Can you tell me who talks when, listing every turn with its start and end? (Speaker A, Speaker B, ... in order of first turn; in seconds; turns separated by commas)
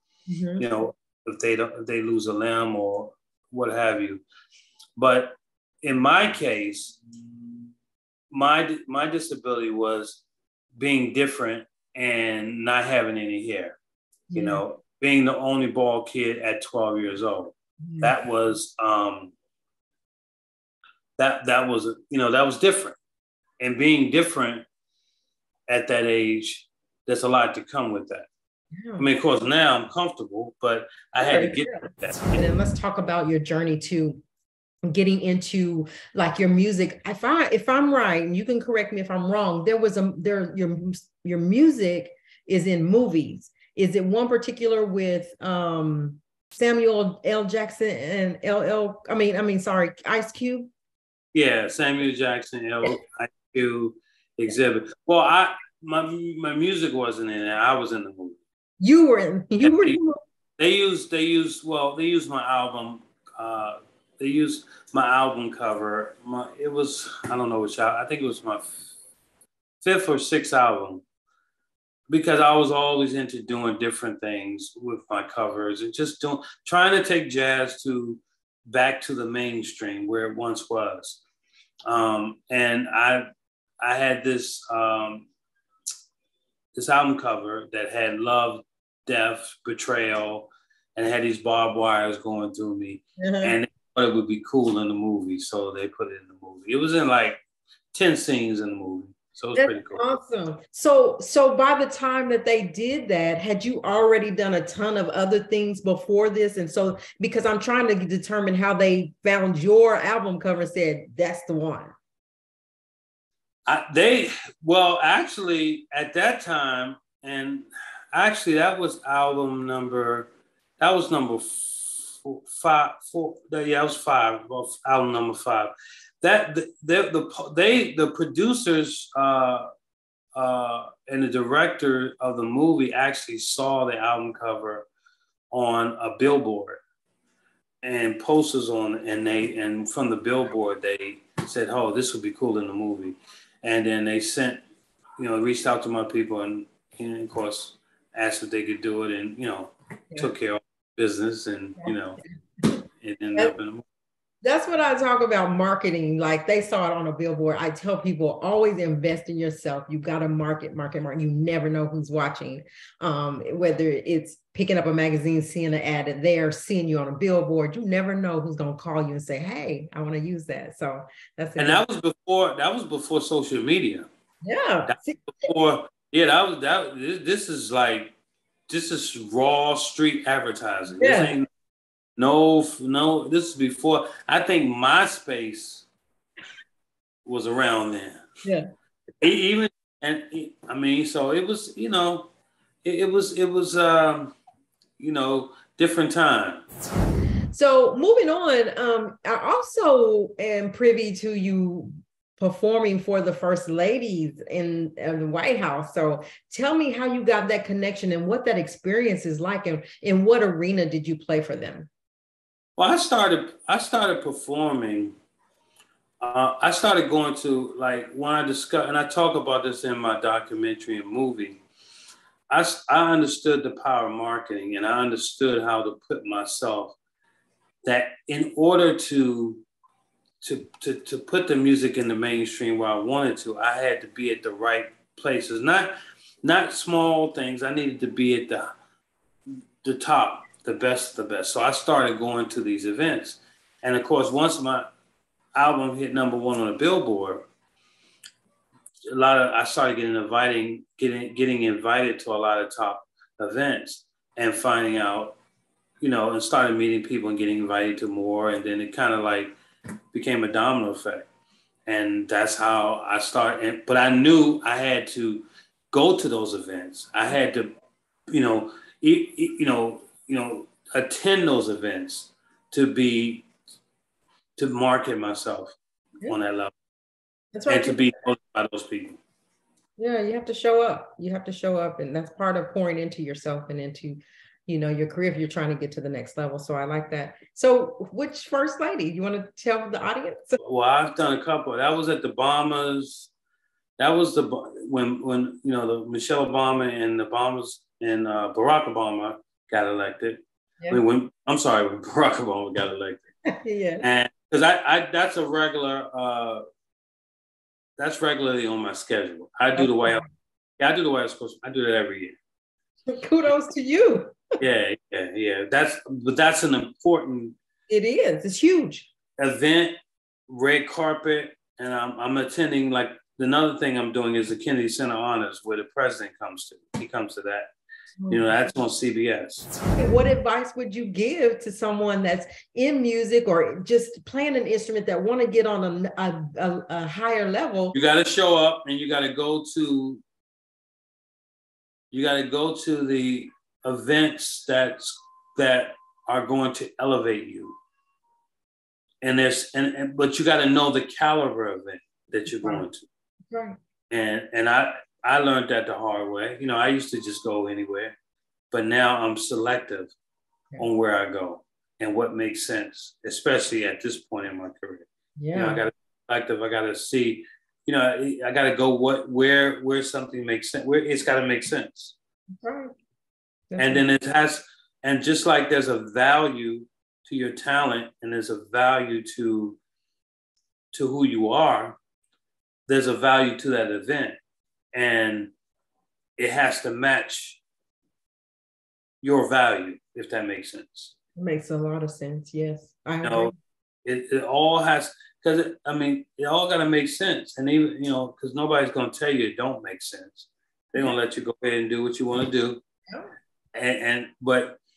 Speaker A: 0.3-0.6, Speaker B: 0.6-4.2, Speaker B: 5.0-7.0, Speaker B: 8.3-10.2, Speaker B: 10.8-13.8, Speaker A: 14.3-14.6, Speaker B: 14.3-19.3, Speaker A: 17.8-18.1, Speaker B: 21.2-23.0, Speaker B: 23.6-24.6, Speaker B: 25.7-28.3, Speaker A: 28.7-29.1, Speaker B: 29.0-32.4, Speaker A: 31.2-34.2, Speaker A: 34.9-50.7, Speaker B: 51.3-58.4, Speaker A: 58.8-60.2, Speaker B: 59.6-60.0, Speaker B: 60.6-68.8, Speaker B: 69.8-71.0, Speaker B: 72.1-81.2, Speaker B: 81.8-83.2, Speaker B: 83.8-85.3, Speaker B: 86.7-97.4, Speaker A: 93.2-93.6, Speaker B: 97.9-100.0, Speaker A: 99.5-111.9, Speaker B: 113.7-120.3, Speaker B: 120.8-129.7, Speaker B: 130.3-134.9, Speaker B: 135.5-136.8, Speaker B: 137.8-144.6, Speaker B: 145.2-152.2, Speaker B: 153.0-153.8, Speaker A: 154.4-171.8, Speaker B: 171.6-174.1, Speaker A: 174.4-175.5, Speaker B: 174.9-178.1, Speaker B: 178.7-181.5, Speaker A: 181.0-181.3, Speaker B: 182.2-185.9, Speaker B: 187.2-188.2, Speaker B: 189.2-192.3, Speaker B: 192.8-194.3, Speaker B: 195.0-196.7, Speaker A: 197.5-211.9, Speaker B: 212.8-215.1, Speaker B: 216.2-221.6, Speaker B: 222.5-226.9, Speaker B: 227.8-229.6, Speaker B: 230.4-238.7, Speaker B: 239.8-244.8, Speaker B: 245.5-247.5, Speaker B: 249.1-255.4, Speaker B: 256.0-259.5, Speaker B: 260.1-261.3, Speaker B: 261.9-267.7, Speaker B: 268.3-273.5, Speaker B: 274.6-275.8, Speaker B: 276.3-276.7, Speaker A: 277.5-278.1, Speaker B: 277.7-279.2, Speaker A: 280.0-290.6, Speaker B: 290.6-293.3, Speaker B: 294.0-303.2, Speaker A: 303.5-304.1, Speaker B: 304.0-306.6, Speaker B: 308.0-310.2, Speaker A: 309.7-310.2, Speaker B: 310.8-312.4, Speaker A: 313.1-314.4, Speaker B: 314.6-317.5, Speaker A: 317.9-319.1, Speaker B: 319.4-319.9, Speaker B: 320.5-327.7, Speaker A: 328.2-328.5, Speaker B: 328.3-329.7, Speaker A: 329.9-337.9, Speaker B: 337.9-340.2, Speaker B: 342.1-347.8, Speaker B: 349.2-353.1, Speaker A: 352.5-352.8, Speaker A: 353.5-353.8, Speaker B: 354.1-358.2, Speaker B: 358.7-360.1, Speaker B: 360.8-372.1, Speaker A: 365.4-365.8, Speaker A: 372.6-372.9, Speaker A: 373.7-374.1, Speaker B: 373.8-379.8, Speaker B: 380.9-382.0, Speaker B: 382.9-384.4, Speaker B: 384.9-385.5, Speaker B: 386.4-387.6, Speaker B: 389.2-391.1, Speaker A: 391.4-393.5, Speaker B: 393.2-393.5, Speaker B: 394.0-402.8, Speaker B: 403.7-404.8